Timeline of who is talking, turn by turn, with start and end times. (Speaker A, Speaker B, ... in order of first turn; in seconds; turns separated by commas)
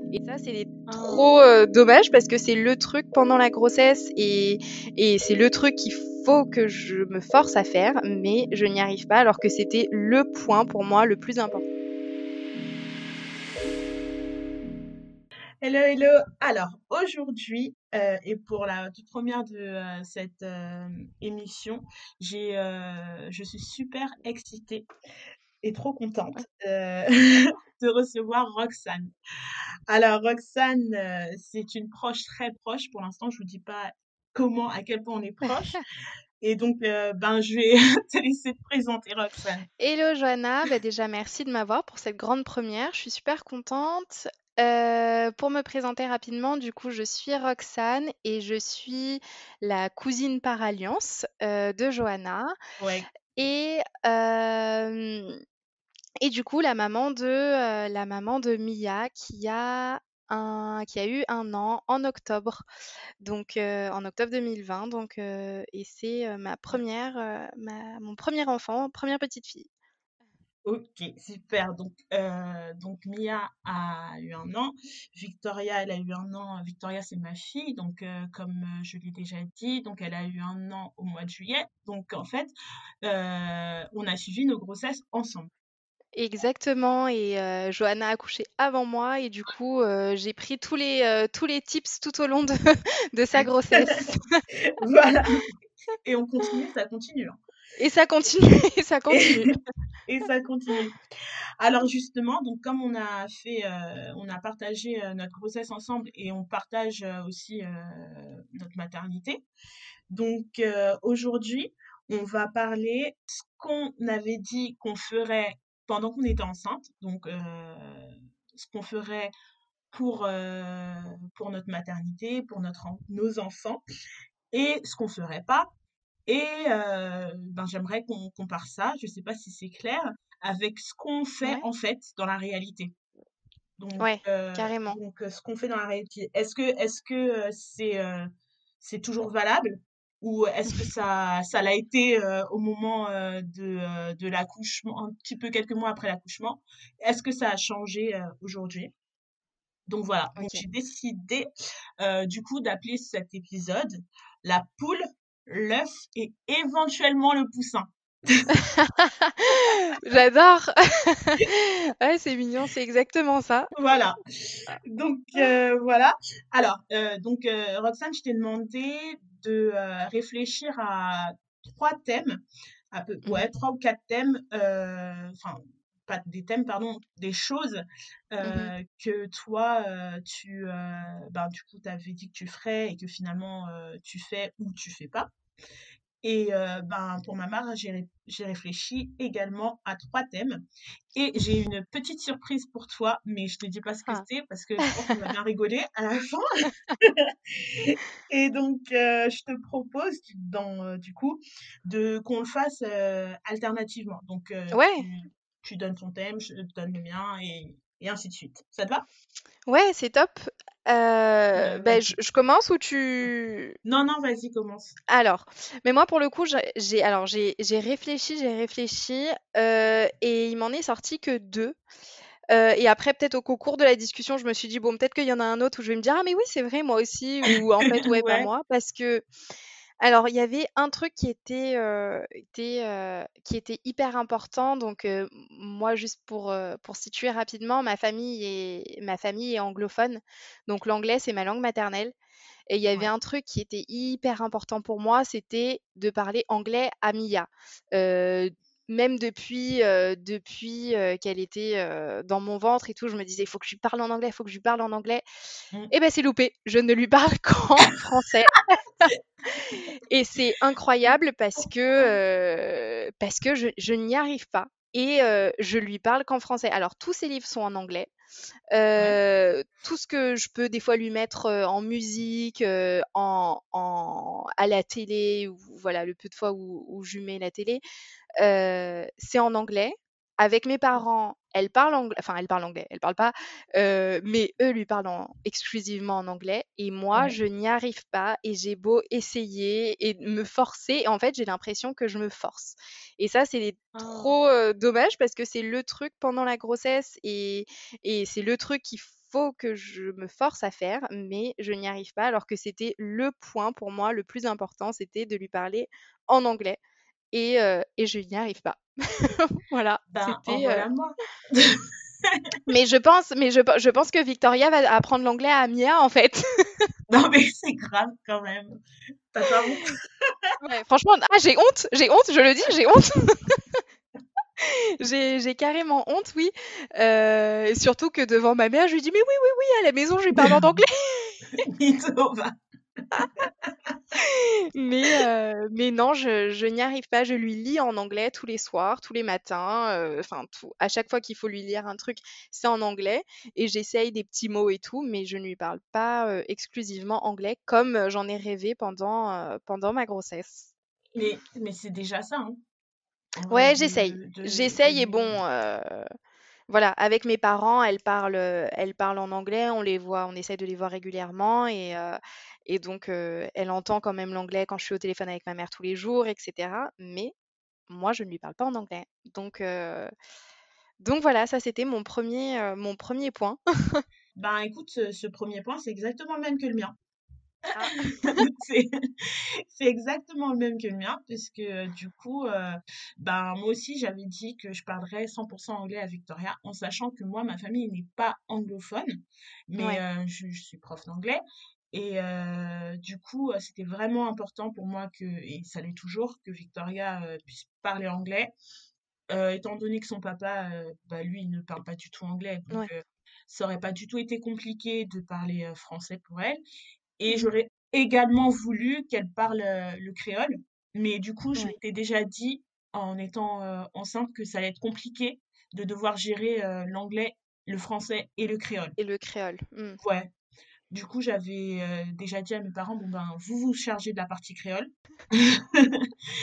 Speaker A: 0.1-11.6, Speaker B: 0.8-1.3, Speaker B: 15.6-24.9, Speaker B: 25.6-29.1, Speaker B: 29.9-35.8, Speaker B: 36.4-39.6, Speaker A: 39.8-52.5, Speaker B: 52.8-53.1, Speaker A: 53.4-55.4, Speaker A: 56.2-62.6, Speaker A: 63.2-69.7, Speaker B: 70.6-82.5, Speaker B: 83.0-85.5, Speaker A: 86.2-92.6, Speaker A: 93.1-94.4, Speaker B: 93.7-95.5, Speaker B: 96.0-97.4, Speaker A: 97.8-99.6, Speaker B: 99.1-99.5, Speaker B: 100.0-101.0, Speaker B: 101.6-109.4, Speaker B: 110.1-119.3, Speaker B: 119.9-123.8, Speaker B: 124.5-125.7, Speaker B: 126.3-132.9, Speaker B: 133.8-148.9, Speaker A: 134.0-135.0, Speaker B: 149.9-151.5, Speaker A: 150.3-150.6, Speaker B: 152.0-158.5, Speaker A: 158.5-163.7, Speaker B: 163.7-172.4, Speaker B: 172.9-185.3, Speaker A: 178.4-178.7, Speaker B: 186.2-190.6, Speaker B: 191.1-209.1, Speaker A: 204.7-205.1, Speaker A: 209.7-213.8, Speaker B: 211.6-212.1, Speaker B: 213.8-214.9, Speaker A: 215.1-221.8, Speaker A: 222.5-229.2, Speaker B: 227.8-228.5, Speaker A: 230.0-242.1, Speaker A: 242.7-255.2, Speaker A: 255.9-259.1, Speaker B: 258.5-259.1, Speaker A: 259.7-268.1, Speaker B: 261.6-262.2, Speaker A: 268.7-277.8, Speaker A: 278.4-306.8, Speaker B: 293.9-294.4, Speaker A: 307.3-310.9, Speaker B: 310.1-312.4, Speaker A: 312.7-316.9, Speaker B: 317.1-318.8, Speaker B: 319.3-320.5, Speaker A: 320.6-323.8, Speaker A: 324.6-331.6, Speaker B: 331.6-334.0, Speaker A: 334.1-350.7, Speaker B: 351.1-352.6, Speaker B: 353.4-355.4, Speaker A: 353.5-356.1, Speaker A: 356.7-367.3, Speaker A: 367.9-370.1, Speaker A: 371.0-374.0, Speaker B: 374.4-376.9, Speaker A: 377.7-378.4, Speaker B: 377.9-389.2, Speaker B: 389.7-398.5, Speaker B: 399.3-406.6, Speaker B: 407.2-418.9, Speaker A: 419.0-420.0, Speaker B: 420.0-420.3, Speaker B: 420.9-426.1